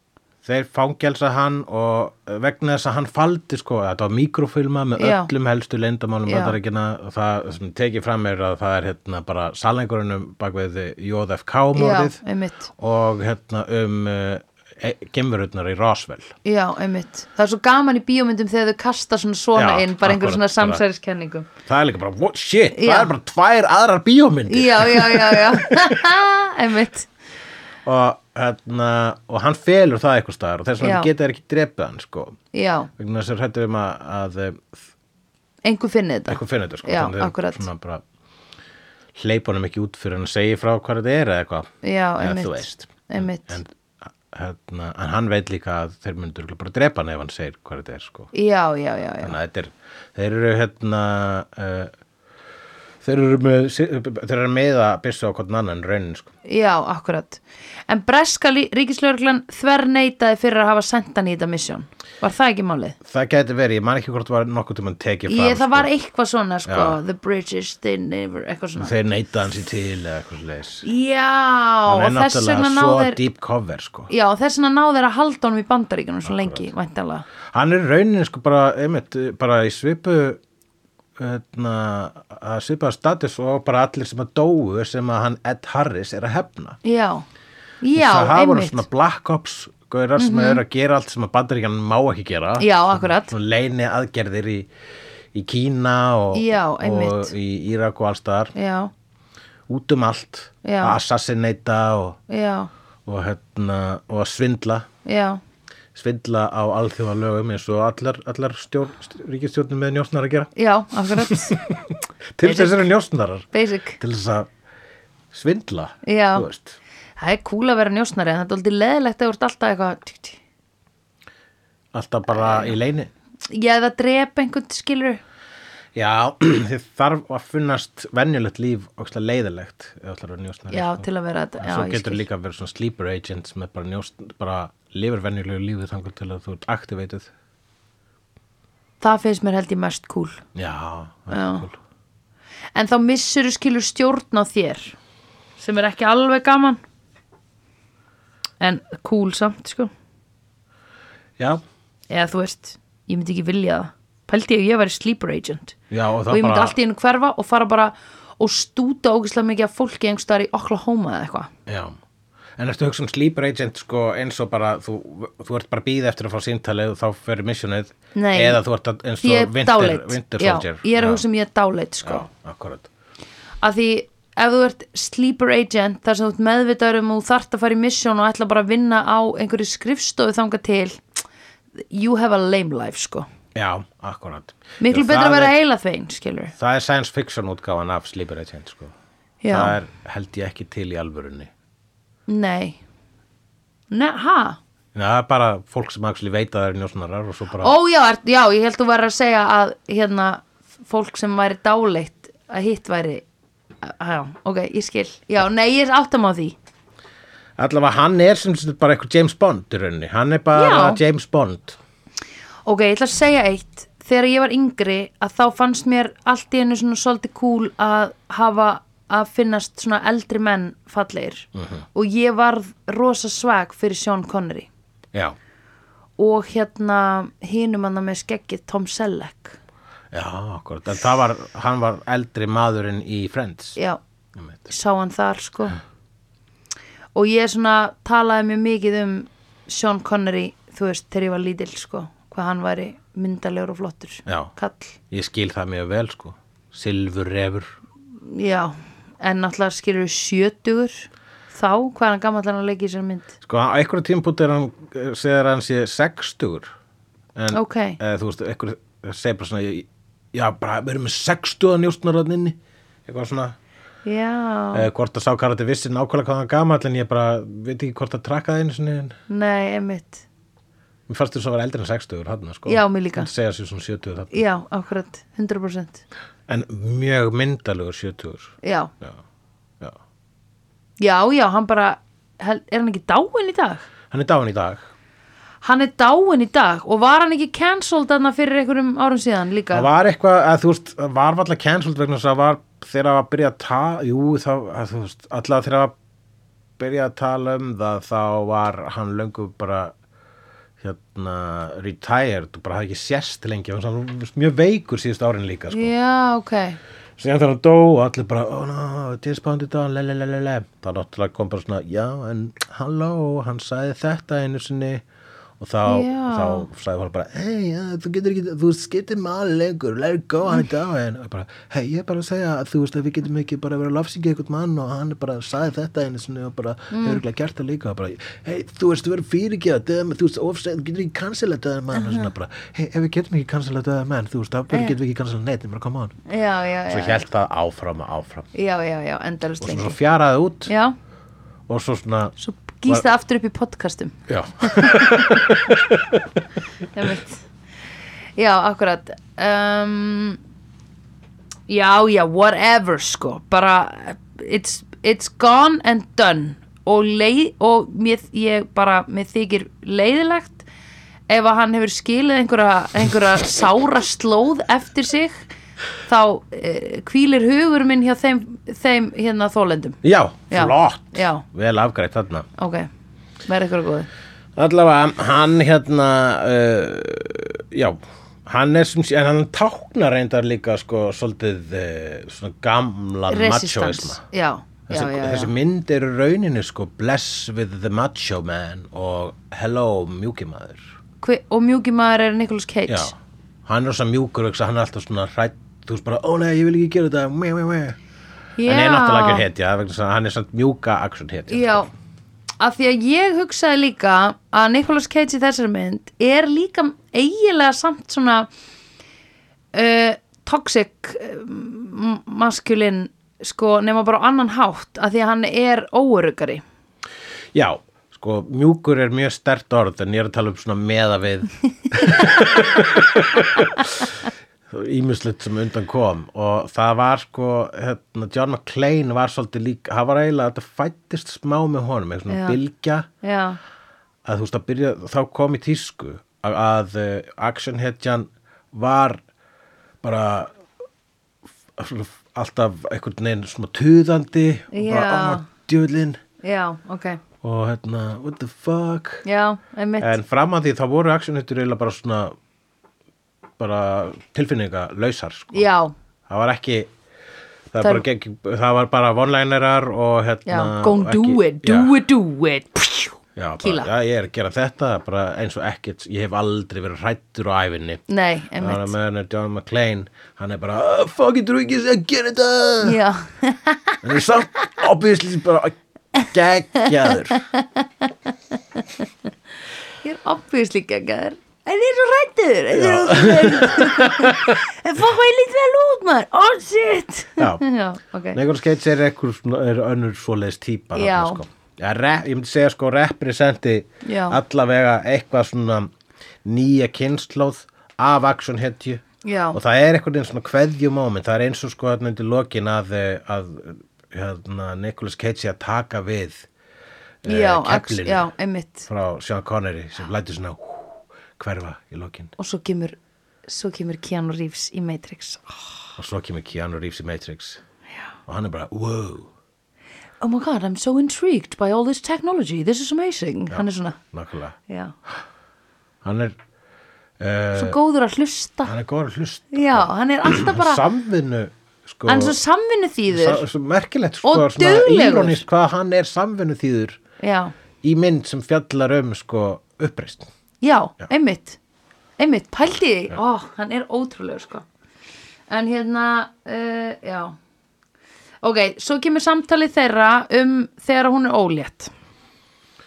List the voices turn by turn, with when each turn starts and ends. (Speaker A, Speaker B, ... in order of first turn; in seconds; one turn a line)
Speaker A: 0.4-12.2
Speaker B: 5.0-5.3
Speaker B: 6.2-6.5
Speaker B: 11.7-12.7
Speaker A: 12.8-16.3
Speaker B: 16.4-21.5
Speaker A: 19.6-20.8
Speaker A: 21.6-26.0
Speaker B: 22.7-23.1
Speaker B: 24.5-27.1
Speaker A: 27.8-32.4
Speaker B: 30.8-31.1
Speaker B: 32.5-32.9
Speaker A: 33.0-34.8
Speaker B: 35.6-37.6
Speaker A: 36.3-38.0
Speaker A: 39.1-43.7
Speaker B: 41.8-43.6
Speaker A: 44.3-48.3
Speaker B: 48.3-49.4
Speaker A: 49.2-51.9
Speaker A: 53.0-56.3
Speaker B: 56.4-63.0
Speaker A: 63.0-65.9
Speaker B: 65.3-68.9
Speaker A: 66.7-67.0
Speaker A: 68.8-70.8
Speaker B: 70.8-73.2
Speaker A: 71.9-74.1
Speaker B: 74.1-77.2
Speaker A: 76.2-76.6
Speaker A: 77.5-80.4
Speaker A: 81.2-86.8
Speaker B: 86.8-87.2
Speaker B: 87.8-88.8
Speaker A: 87.9-94.7
Speaker B: 90.2-90.6
Speaker B: 92.6-93.3
Speaker A: 95.3-98.5
Speaker B: 96.3-97.3
Speaker B: 98.5-98.9
Speaker A: 99.7-102.2
Speaker B: 100.6-101.0
Speaker B: 102.3-102.7
Speaker A: 103.0-104.9
Speaker B: 105.0-105.4
Speaker A: 105.9-110.5
Speaker B: 110.5-111.6
Speaker A: 111.0-113.5
Speaker B: 112.4-112.8
Speaker B: 113.5-114.0
Speaker A: 114.0-114.5
Speaker A: 115.3-116.8
Speaker B: 116.0-116.5
Speaker B: 117.2-120.4
Speaker A: 121.9-123.1
Speaker B: 122.3-122.8
Speaker B: 123.5-125.2
Speaker A: 125.9-131.1
Speaker B: 130.7-132.2
Speaker A: 131.6-137.3
Speaker B: 139.0-140.4
Speaker A: 140.5-141.8
Speaker B: 141.3-141.7
Speaker B: 142.7-144.9
Speaker B: 145.6-146.8
Speaker B: 148.6-149.9
Speaker B: 152.1-155.8
Speaker A: 155.9-156.8
Speaker B: 156.3-161.5
Speaker A: 161.7-161.9
Speaker A: 162.6-171.2
Speaker B: 168.1-168.6
Speaker B: 169.2-172.3
Speaker A: 172.0-172.9
Speaker B: 173.6-181.2
Speaker B: 181.8-183.3
Speaker A: 183.5-185.5
Speaker B: 184.8-186.5
Speaker A: 186.5-188.9
Speaker B: 189.4-189.8
Speaker A: 189.5-191.5
Speaker B: 192.3-192.8
Speaker B: 193.9-194.6
Speaker A: 194.9-197.7
Speaker B: 197.6-203.2
Speaker B: 203.8-206.5
Speaker A: 207.6-211.8
Speaker B: 210.5-211.0
Speaker B: 212.7-224.7
Speaker A: 221.5-221.8
Speaker B: 226.2-229.6
Speaker A: 230.1-233.8
Speaker A: 234.3-234.7
Speaker B: 234.7-235.8
Speaker B: 237.1-245.0
Speaker A: 244.3-244.5
Speaker A: 245.1-247.7
Speaker B: 248.2-253.3
Speaker A: 253.4-256.7
Speaker A: 257.4-263.6
Speaker B: 257.5-258.0
Speaker B: 264.0-264.9
Speaker A: 264.7-269.1
Speaker B: 269.3-270.2
Speaker A: 271.1-274.4
Speaker B: 272.7-273.3
Speaker B: 274.3-276.0
Speaker A: 276.5-279.2
Speaker B: 278.6-278.9
Speaker B: 281.0-283.9
Speaker A: 284.1-284.9
Speaker B: 285.6-289.9
Speaker A: 289.7-295.9
Speaker A: 296.8-299.9
Speaker A: 300.8-305.9
Speaker B: 305.7-306.8
Speaker A: 307.2-315.0
Speaker A: 315.6-336.2
Speaker B: 315.8-316.7
Speaker B: 326.9-327.2
Speaker B: 331.9-332.3
Speaker B: 336.3-337.2
Speaker A: 336.9-338.5
Speaker B: 338.5-340.0
Speaker A: 339.6-340.7
Speaker B: 340.6-340.9
Speaker A: 341.7-342.3
Speaker B: 342.4-345.4
Speaker A: 344.3-346.4
Speaker B: 346.9-347.4
Speaker B: 348.4-350.4
Speaker B: 351.7-360.6
Speaker B: 361.3-365.4
Speaker B: 366.0-370.0
Speaker A: 370.0-372.5
Speaker B: 370.5-371.4
Speaker B: 372.6-372.9
Speaker B: 373.4-374.1
Speaker A: 374.6-384.2
Speaker B: 383.3-385.5
Speaker A: 384.9-390.9
Speaker B: 391.2-393.1
Speaker A: 392.9-393.1
Speaker A: 393.6-398.0
Speaker B: 398.6-399.4
Speaker A: 398.6-401.9
Speaker B: 401.5-401.9
Speaker B: 402.6-408.5
Speaker B: 409.7-416.6
Speaker A: 417.5-433.1
Speaker B: 432.3-432.6
Speaker B: 433.2-433.6
Speaker A: 434.2-439.2
Speaker A: 440.0-440.5
Speaker A: 441.8-446.2
Speaker B: 444.7-445.5
Speaker B: 446.4-447.2
Speaker A: 447.4-449.2
Speaker B: 449.2-450.2
Speaker A: 450.0-452.4
Speaker A: 453.6-455.7
Speaker B: 455.5-455.9
Speaker A: 456.3-456.9
Speaker A: 457.7-461.9
Speaker B: 460.4-463.9
Speaker A: 463.4-468.0
Speaker B: 468.1-468.9
Speaker A: 468.6-473.0
Speaker B: 472.8-474.0
Speaker A: 474.0-477.4
Speaker B: 477.3-478.8
Speaker B: 480.0-488.4
Speaker A: 482.7-484.6
Speaker A: 487.4-487.6
Speaker A: 488.3-495.9
Speaker B: 490.9-491.4
Speaker B: 494.0-494.4
Speaker A: 496.4-499.0
Speaker B: 499.2-499.6
Speaker A: 499.5-506.5
Speaker A: 507.2-508.3
Speaker B: 507.2-508.9
Speaker A: 508.9-512.3
Speaker B: 512.4-515.6
Speaker A: 516.0-517.6
Speaker A: 518.3-519.3
Speaker B: 520.2-524.0
Speaker A: 523.5-524.5
Speaker B: 524.7-524.9
Speaker A: 526.0-526.4
Speaker A: 527.2-527.8
Speaker B: 527.5-528.7
Speaker A: 528.6-532.4
Speaker B: 529.5-530.8
Speaker B: 532.0-533.4
Speaker A: 533.1-537.0
Speaker B: 534.2-535.4
Speaker B: 537.2-537.5
Speaker A: 537.8-540.3
Speaker B: 540.6-541.6
Speaker B: 542.2-544.6
Speaker B: 545.5-547.4
Speaker B: 548.4-551.9